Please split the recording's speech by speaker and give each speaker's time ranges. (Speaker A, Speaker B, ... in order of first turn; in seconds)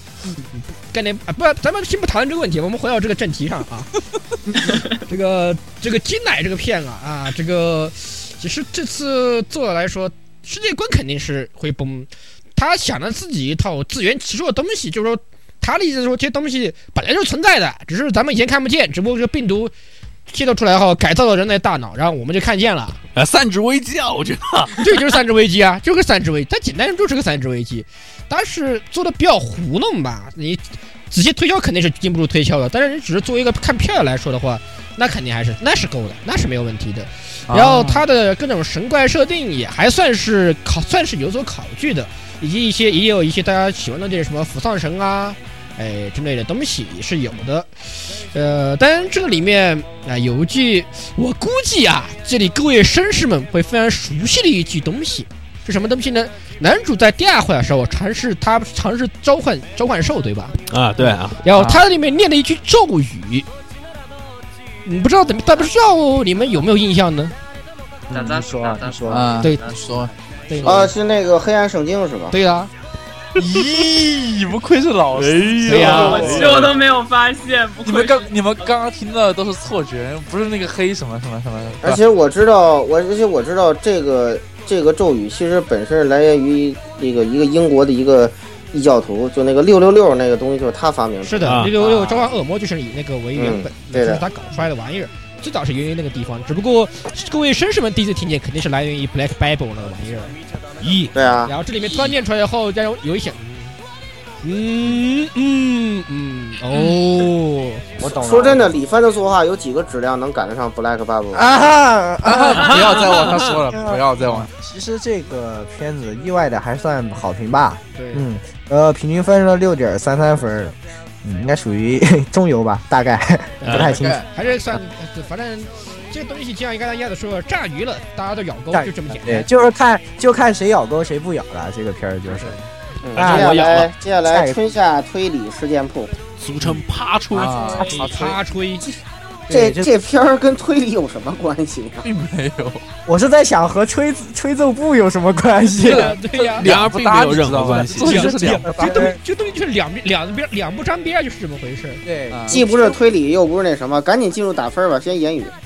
Speaker A: 0.5-3.9, 4.6-19.7, 20.3-23.0, 24.8-60.6, 61.4-63.5, 64.8-67.3, 70.5-70.9, 72.3-72.7, 75.7-76.4, 91.2-100.3, 101.5-103.8, 104.4-107.9, 117.9-118.2, 123.6-129.5, 132.3-132.6, 137.4-138.8, 145.8-146.7, 148.0-152.0
Speaker B: 23.1-24.9, 60.7-61.4, 75.1-76.7, 91.4-91.7, 100.8-101.1, 123.6-123.9, 136.4-137.6, 146.6-148.3
Speaker C: 37.5-38.0, 61.5-61.8, 69.1-70.9, 73.3-76.5, 77.8-82.0, 112.2-114.5, 123.9-124.3, 133.2-133.4, 137.3-138.4, 142.0-142.8, 145.8-149.1, 152.3-152.7
Speaker D: 68.1-69.4, 108.0-108.8, 111.3-124.2, 128.7-132.6, 133.1-134.7, 139.5-139.9, 143.1-146.2, 148.6-149.2, 152.0-153.0
Speaker E: 68.1-70.2, 75.8-78.7
Speaker F: 70.6-72.3, 81.8-92.3, 93.3-94.2, 101.1-101.5, 108.0-111.5, 133.0-136.1, 139.5-142.0, 152.5-155.5